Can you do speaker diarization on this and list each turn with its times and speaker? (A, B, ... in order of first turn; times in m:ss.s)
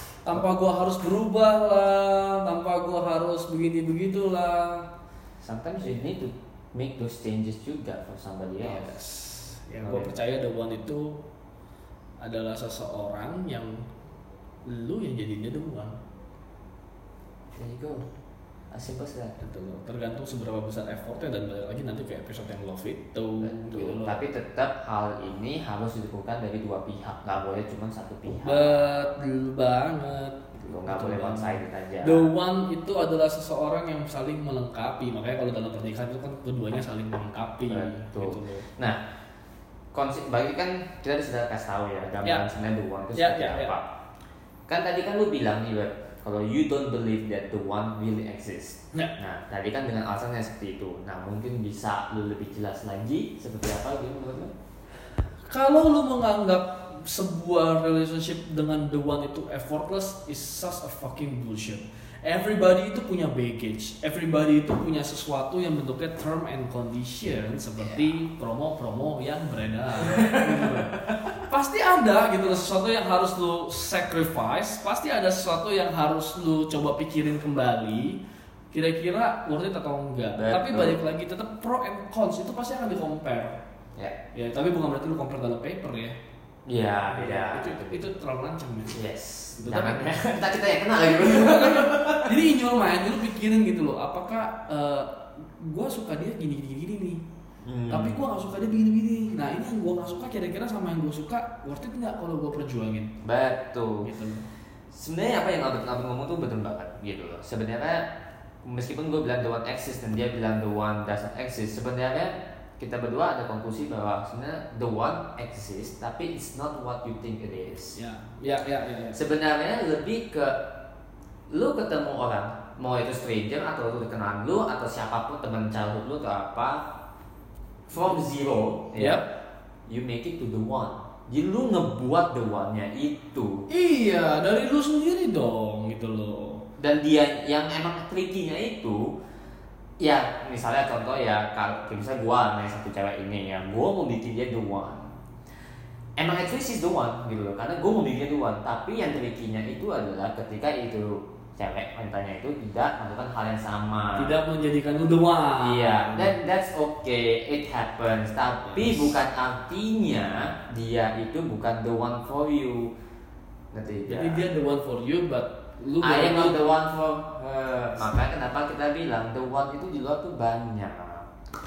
0:00.2-0:04.9 A
0:05.4-0:08.9 B
0:08.6-0:11.2 A
0:09.8-0:10.2 B
0:12.2-0:13.8 A
0:14.7-0:16.0 A
0:17.6-0:18.0 B
0:18.7-0:19.3 B
0:19.4-0:24.2 A
0:23.4-0:28.8 B
0:28.4-0:38.6 A
0:30.6-0:32.3 B
0:37.7-0:39.0 B
0:39.9-0:43.9 B
0:43.1-0:43.7 A
0:44.7-0:54.5 B
0:55.5-1:18.2 A
1:10.1-1:10.4 B
1:18.7-1:23.6 A
1:20.3-1:21.0 B
1:24.3-1:26.1 A
1:26.6-1:28.0 B
1:27.1-1:29.0 A
1:28.9-1:32.4 B
1:29.6-1:30.2 A
1:31.3-1:37.2 A
1:37.6-1:38.2 B
1:37.9-1:43.1 A
1:43.2-1:44.1 B
1:44.0-1:44.4 A
1:44.9-1:48.1 B
1:48.6-1:58.0 B
1:57.9-1:59.2 A
1:59.1-2:00.7 B
2:01.5-2:06.8 B
2:07.9-2:09.2 B
2:09.0-2:09.2 A
2:09.9-2:13.7 B
2:13.7-2:16.6 A
2:16.8-2:19.1 B
2:20.0-2:25.1 B
2:26.2-2:34.4 B
2:34.2-2:36.4 A
2:35.6-2:42.9 B
2:38.6-2:39.1 A
2:43.7-2:44.5 B
2:44.1-2:46.6 A
2:46.0-2:51.3 B